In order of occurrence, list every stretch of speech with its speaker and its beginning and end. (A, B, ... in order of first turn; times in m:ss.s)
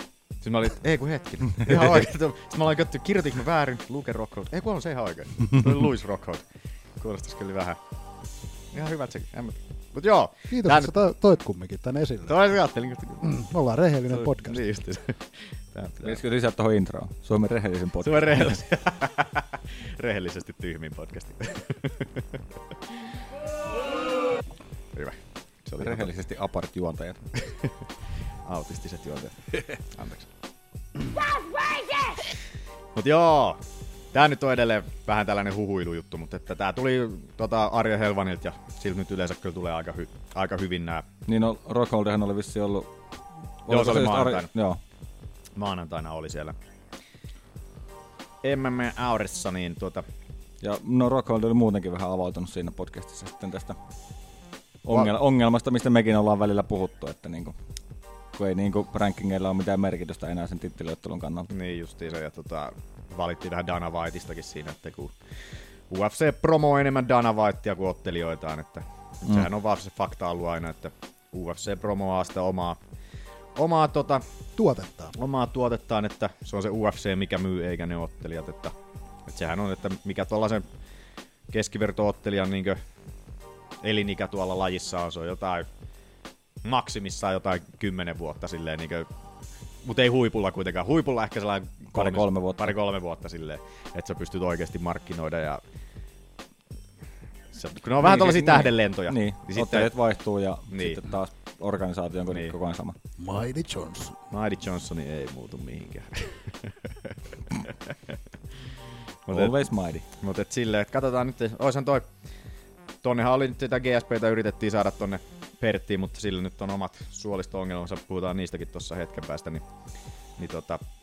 0:00.4-0:06.4 A
0:07.0-0:07.8 A
0:08.7-0:10.9 A
0:10.5-0:12.4 B
0:12.3-0:13.3 A
0:13.2-0:14.6 B
0:14.1-0:16.2 A
0:16.0-0:18.6 C
0:18.0-0:22.2 A
0:24.9-0:26.1 A
0:25.8-0:27.2 C
0:28.4-0:30.3 A
0:32.9-0:33.6 A
0:34.1-0:41.0 A
0:41.2-0:42.9 C
0:43.6-0:44.8 C
0:43.7-0:44.5 A
0:45.6-0:46.6 A
0:48.4-0:50.0 A
0:50.6-0:53.8 C
0:54.8-0:57.6 C
0:58.3-1:01.5 C
1:01.5-1:05.1 A
1:05.9-1:12.8 A
1:13.6-1:14.2 A
1:14.6-1:15.1 B
1:15.1-1:18.7 A
1:19.3-1:20.6 A
1:21.5-1:22.8 A
1:23.8-1:25.7 A
1:26.6-1:29.1 A
1:29.8-1:35.6 A
1:31.9-1:32.8 C
1:37.5-1:39.9 A
1:38.0-1:43.0 C
1:40.7-1:41.0 A
1:43.2-1:44.2 B
1:44.3-1:47.1 A
1:49.3-1:49.6 A
1:49.3-1:50.0 C
1:50.2-1:52.1 A
1:53.0-1:59.6 A
2:00.4-2:00.8 A